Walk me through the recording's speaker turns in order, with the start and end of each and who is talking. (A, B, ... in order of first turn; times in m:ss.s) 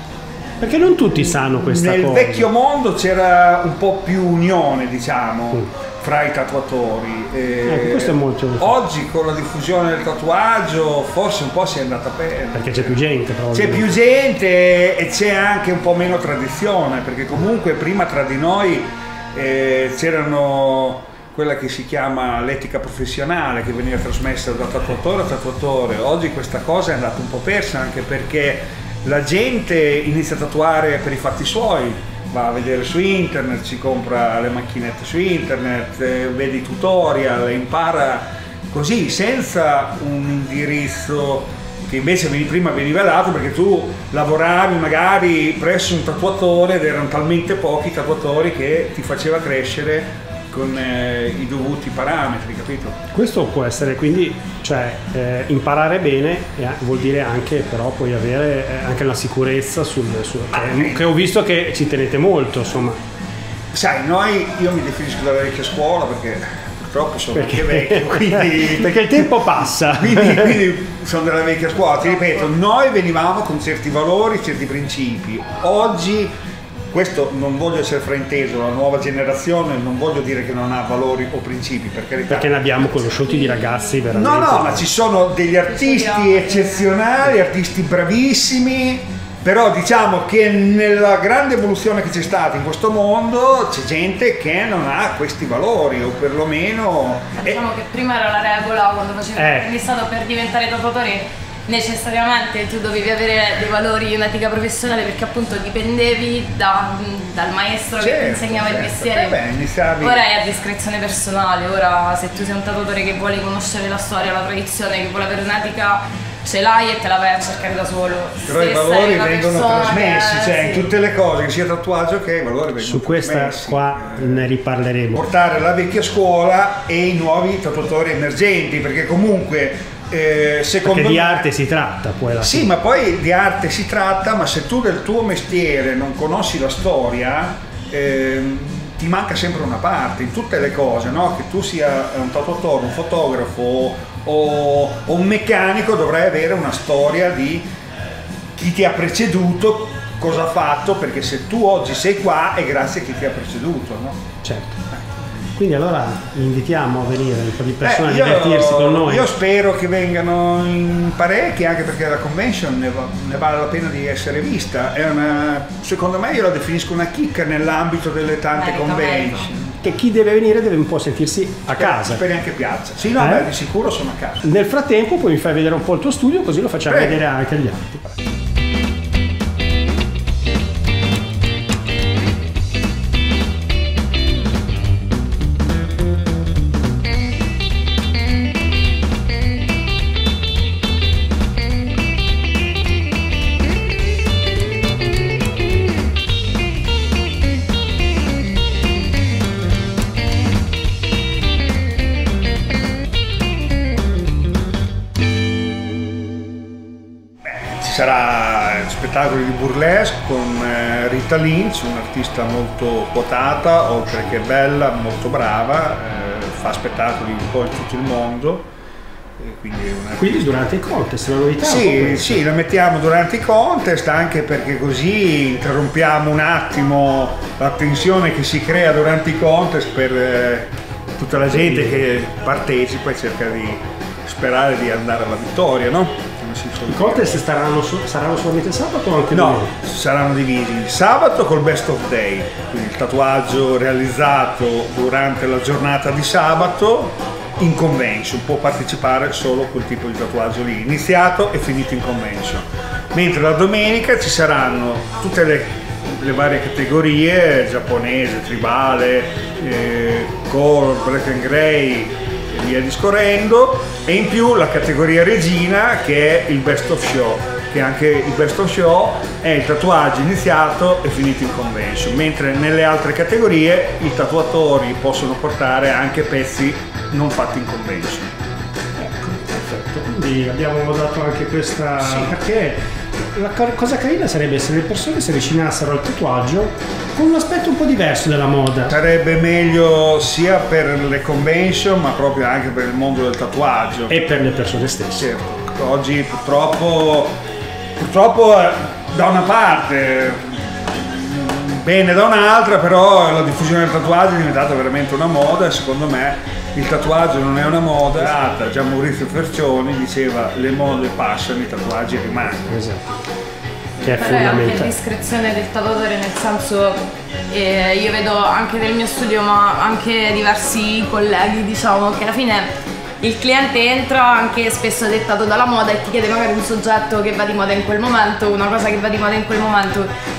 0:00.6-0:02.5 A
0:01.5-0:12.9 B
0:07.6-0:08.7 A
0:12.5-0:13.9 A
0:13.5-0:53.0 B
0:53.1-1:03.0 A
1:00.5-1:01.1 B
1:03.7-1:09.3 B
1:07.3-1:10.6 A
1:10.0-1:16.3 B
1:16.9-1:22.7 B
1:22.3-1:24.9 A
1:24.1-1:37.6 B
1:25.7-1:26.9 C
1:37.4-1:49.4 C
1:39.4-1:39.7 A
1:48.0-1:50.2 B
1:50.0-2:00.9 C
1:58.5-2:04.4 B
2:02.8-2:05.3 A
2:05.1-2:11.4 B
2:10.8-2:12.7 A
2:12.4-2:27.7 B
2:28.6-2:34.2 B
2:34.4-2:34.8 A
2:35.5-2:39.3 A
2:37.8-2:49.8 B
2:48.5-2:49.5 C
2:49.8-2:52.2 A
2:51.7-2:54.5 B
2:53.2-2:53.5 A
2:54.4-2:58.0 A
2:56.9-2:57.2 B
3:27.4-3:38.7 B
3:39.4-3:40.6 B
3:40.2-3:42.4 A
3:41.6-3:57.4 B
3:51.5-3:52.0 A
3:56.9-3:59.7 A
3:59.3-4:38.3 B
4:39.0-4:42.8 A
4:42.0-4:42.3 B
4:43.3-4:48.9 A
4:48.9-4:54.2 B
4:54.1-4:55.3 A
4:55.2-4:57.3 B
4:58.0-5:12.8 B
5:12.7-5:13.2 A
5:14.0-5:14.2 B
5:14.0-5:14.9 A
5:14.0-5:22.7 C
5:23.2-5:30.1 C